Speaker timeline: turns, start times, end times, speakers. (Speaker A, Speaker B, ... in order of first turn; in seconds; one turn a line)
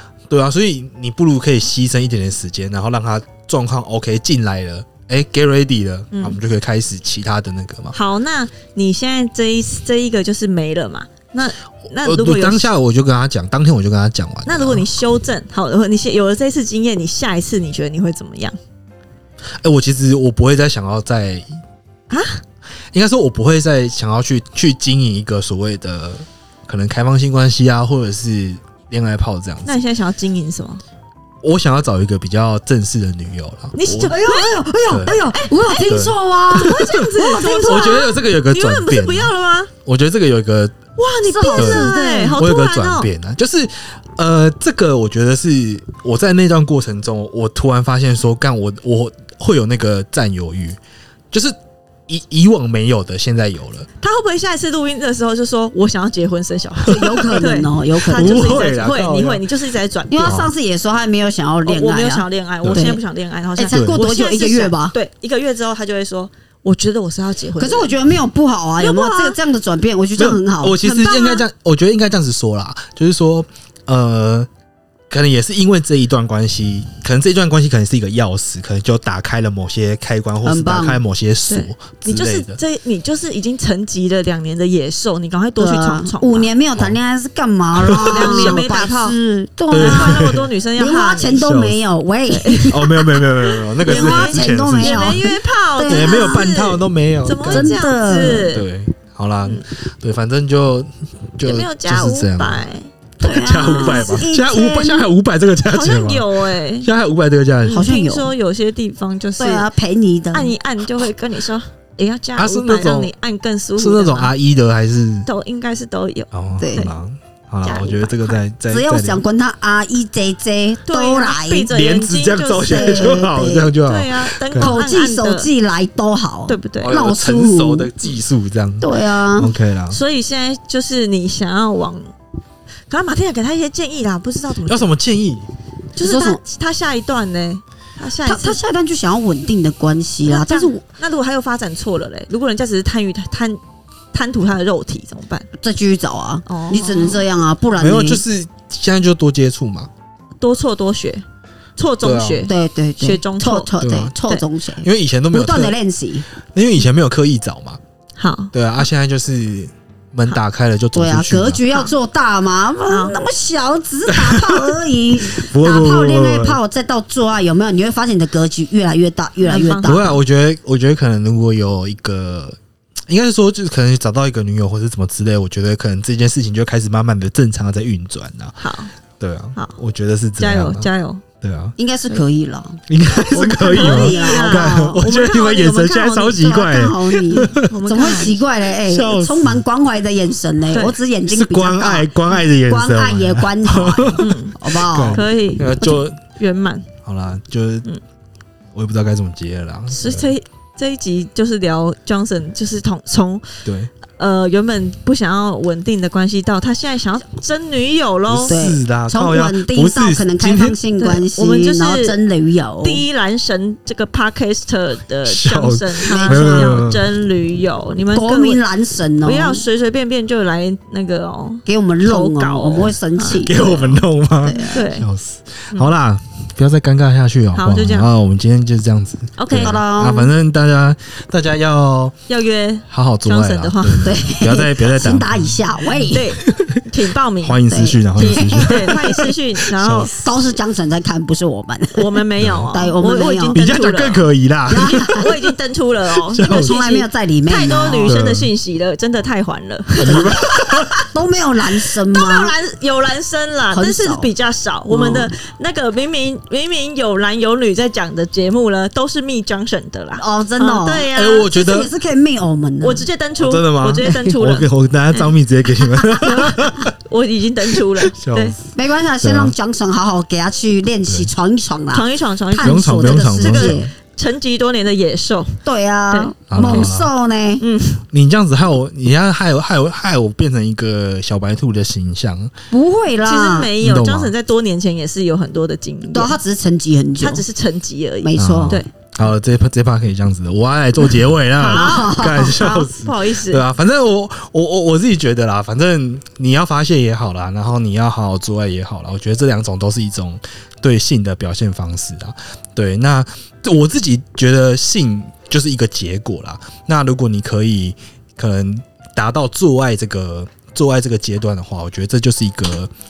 Speaker A: 0.3-8.0
Speaker B: 6.1-6.4
Speaker B: 7.9-12.7
Speaker A: 12.0-14.9
Speaker B: 14.5-18.6
Speaker A: 19.6-21.4
Speaker B: 22.1-22.4
Speaker A: 22.9-29.8
Speaker B: 29.7-30.8
Speaker A: 31.4-34.2
Speaker B: 33.8-35.9
Speaker C: 34.0-38.0
Speaker A: 34.9-35.2
Speaker A: 35.9-39.3
Speaker B: 36.6-39.7
Speaker A: 39.9-40.8
Speaker B: 41.0-43.1
Speaker C: 41.2-42.4
Speaker A: 41.6-50.8
Speaker A: 51.3-51.6
Speaker A: 52.1-53.9
Speaker B: 54.0-60.5
Speaker A: 56.9-57.2
Speaker C: 56.9-58.8
Speaker A: 58.0-59.5
Speaker C: 60.1-63.0
Speaker A: 60.2-60.5
Speaker B: 61.7-68.0
Speaker A: 62.6-62.9
Speaker C: 63.6-65.0
Speaker A: 63.7-64.0
Speaker C: 67.6-70.8
Speaker B: 68.8-69.4
Speaker A: 70.2-74.5
Speaker B: 70.8-71.5
Speaker A: 75.1-82.6
Speaker C: 80.4-81.0
Speaker B: 81.5-86.5
Speaker C: 85.6-93.2
Speaker A: 87.8-88.7
Speaker B: 88.1-89.2
Speaker B: 89.7-91.5
Speaker A: 89.7-90.5
Speaker A: 91.3-91.8
Speaker B: 92.3-92.8
Speaker A: 92.7-95.3
Speaker B: 93.8-98.7
Speaker C: 93.8-96.4
Speaker A: 95.8-97.8
Speaker C: 97.5-98.5
Speaker A: 98.4-102.7
Speaker B: 101.4-102.9
Speaker C: 103.2-105.1
Speaker A: 103.2-106.3
Speaker B: 103.7-104.2
Speaker B: 105.7-106.9
Speaker A: 106.8-107.9
Speaker B: 107.7-109.7
Speaker C: 107.7-108.3
Speaker C: 109.4-110.5
Speaker B: 110.3-114.3
Speaker A: 112.4-113.1
Speaker A: 113.8-115.3
Speaker B: 115.2-116.9
Speaker A: 116.3-119.2
Speaker C: 116.6-116.9
Speaker B: 117.6-118.4
Speaker C: 118.7-121.7
Speaker B: 120.9-123.2
Speaker A: 121.7-124.7
Speaker C: 122.7-123.7
Speaker B: 123.8-125.5
Speaker C: 124.6-127.9
Speaker B: 126.5-126.9
Speaker A: 126.8-130.0
Speaker C: 128.8-129.5
Speaker B: 129.9-132.1
Speaker B: 132.9-134.9
Speaker A: 134.7-135.5
Speaker B: 136.0-138.6
Speaker C: 136.0-136.4
Speaker C: 138.2-140.8
Speaker B: 140.2-143.6
Speaker B: 144.1-145.5
Speaker C: 145.6-148.2
Speaker B: 146.5-147.2
Speaker A: 147.8-149.9
Speaker B: 150.4-151.2
Speaker B: 151.8-153.7
Speaker A: 152.0-152.5
Speaker C: 152.5-156.2
Speaker A: 153.8-154.2
Speaker A: 154.8-155.8
Speaker A: 156.5-157.8
Speaker B: 158.2-158.5
Speaker A: 158.5-161.6
Speaker C: 160.9-170.1
Speaker B: 162.9-163.2
Speaker A: 164.1-166.6
Speaker B: 169.4-170.2
Speaker A: 169.8-172.6
Speaker A: 173.1-178.6
Speaker B: 178.6-178.9
Speaker A: 179.2-180.9
Speaker B: 180.4-181.2
Speaker A: 181.4-181.8
Speaker C: 181.8-185.0
Speaker A: 182.9-187.7
Speaker B: 183.6-186.4
Speaker C: 186.3-192.1
Speaker B: 187.6-188.4
Speaker A: 188.8-189.6
Speaker B: 190.7-191.0
Speaker A: 191.3-196.2
Speaker C: 192.7-195.2
Speaker B: 194.2-196.9
Speaker A: 197.1-197.9
Speaker A: 198.7-200.3
Speaker B: 199.9-203.6
Speaker A: 203.7-203.9
Speaker B: 204.2-208.6
Speaker A: 208.3-210.8
Speaker C: 208.5-213.1
Speaker B: 211.0-212.2
Speaker B: 212.8-218.6
Speaker A: 215.3-217.1
Speaker C: 216.1-216.9
Speaker C: 218.1-219.7
Speaker B: 219.2-223.5
Speaker C: 221.7-224.9
Speaker A: 223.4-232.2
Speaker B: 224.7-225.1
Speaker B: 227.6-228.1
Speaker B: 229.4-229.8
Speaker C: 229.6-230.3
Speaker B: 232.3-234.2
Speaker A: 232.9-236.8
Speaker C: 234.0-236.4
Speaker B: 236.1-240.2
Speaker A: 237.4-240.1
Speaker C: 237.7-239.3
Speaker C: 240.0-243.6
Speaker B: 241.9-251.0
Speaker A: 242.4-242.7
Speaker A: 243.5-245.4
Speaker C: 244.7-245.3
Speaker A: 246.3-246.8
Speaker C: 246.4-248.2
Speaker A: 248.1-248.5
Speaker A: 249.9-251.0
Speaker C: 250.0-252.5
Speaker B: 251.8-261.5
Speaker C: 253.7-254.3
Speaker C: 254.9-255.3
Speaker C: 260.2-263.1
Speaker A: 261.1-261.9
Speaker B: 262.8-265.3
Speaker A: 263.4-266.9
Speaker C: 264.0-264.3
Speaker B: 266.2-268.6
Speaker A: 267.8-269.5
Speaker C: 268.7-273.9
Speaker B: 271.9-275.6
Speaker A: 272.6-273.8
Speaker C: 275.6-277.6
Speaker B: 276.1-276.9
Speaker A: 276.5-277.1
Speaker B: 277.6-278.0
Speaker A: 278.1-282.5
Speaker C: 282.7-283.7
Speaker B: 283.2-286.4
Speaker A: 283.8-284.3
Speaker C: 286.1-287.4
Speaker B: 287.2-288.9
Speaker C: 288.2-288.8
Speaker A: 288.4-312.9
Speaker B: 291.6-293.6
Speaker C: 291.6-292.6